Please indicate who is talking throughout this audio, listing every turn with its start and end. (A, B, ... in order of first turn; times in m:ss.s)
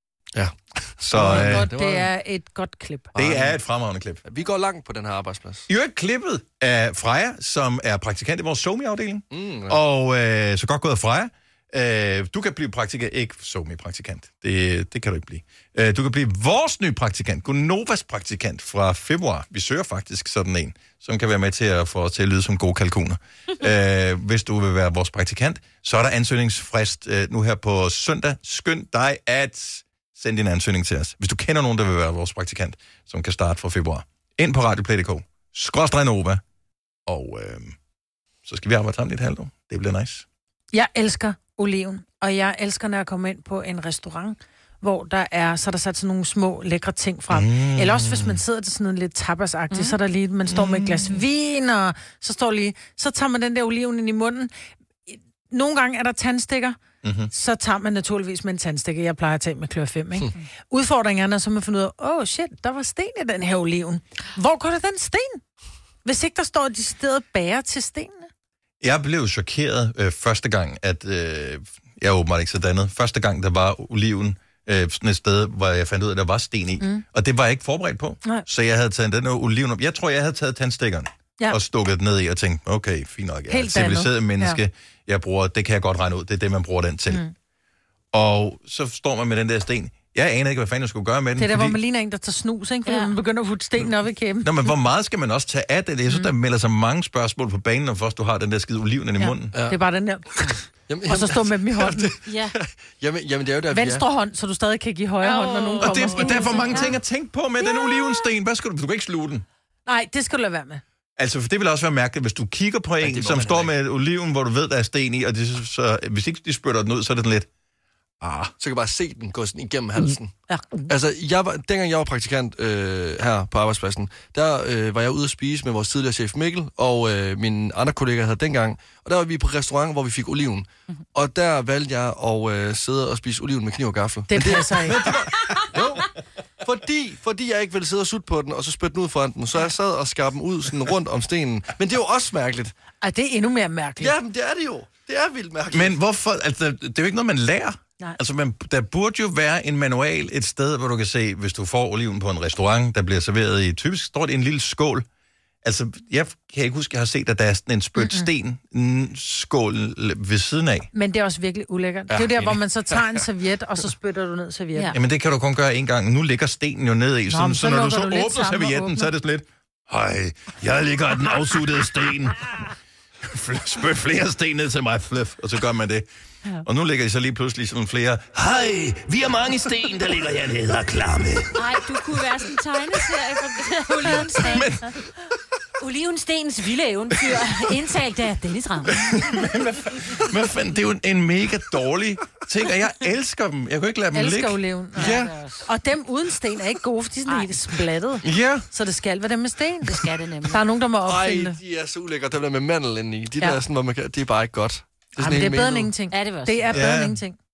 0:00.3-0:02.1 A
0:01.1-0:01.7 B
0:01.1-0:03.1 C
0:03.1-0:03.6 A
0:03.2-0:04.2 B
0:04.2-0:05.6 A
0:05.7-0:36.4 B
0:09.3-0:09.8 A
0:37.0-0:37.8 B
0:38.4-0:40.2 B
0:40.7-0:54.5 C
0:47.3-0:48.4 B
0:49.7-0:50.0 D
0:50.5-0:51.2 B
0:55.1-0:56.8 C
0:57.0-0:57.3 B
0:57.3-1:05.4 C
1:06.0-1:08.3 C
1:08.8-1:27.2 B
1:23.5-1:24.6 C
1:28.1-1:31.8 B
1:31.4-1:34.6 C
1:32.8-1:33.1 D
1:34.4-1:39.5 B
1:39.2-1:40.5 C
1:39.5-1:39.8 A
1:40.4-1:44.0 A
1:41.1-1:42.1 C
1:42.2-1:42.5 D
1:43.7-1:46.9 C
1:45.2-1:46.9 D
1:45.8-1:49.4 B
1:49.8-1:50.8 C
1:51.2-1:57.5 B
1:53.0-1:53.7 A
1:58.2-1:58.5 B
1:58.6-2:00.3 A
2:00.9-2:16.1 A
2:14.3-2:15.0 C
2:16.6-2:22.7 A
2:23.0-2:24.1 C
2:24.0-2:26.0 A
2:25.7-2:35.0 B
2:35.6-2:40.9 B
2:38.0-2:38.3 C
2:40.9-2:44.9 C
2:44.9-2:52.5 B
2:47.3-2:49.1 C
2:53.2-2:56.1 B
2:56.6-3:01.8 B
3:01.6-3:04.7 D
3:04.2-3:04.9 B
3:05.8-3:09.2 D
3:08.9-3:14.6 B
3:14.1-3:21.6 C
3:15.0-3:15.6 D
3:15.0-3:15.3 A
3:17.2-3:17.5 D
3:18.2-3:18.6 A
3:19.8-3:20.6 D
3:21.0-3:25.9 A
3:25.2-3:27.4 C
3:26.1-3:26.8 D
3:26.7-3:27.2 B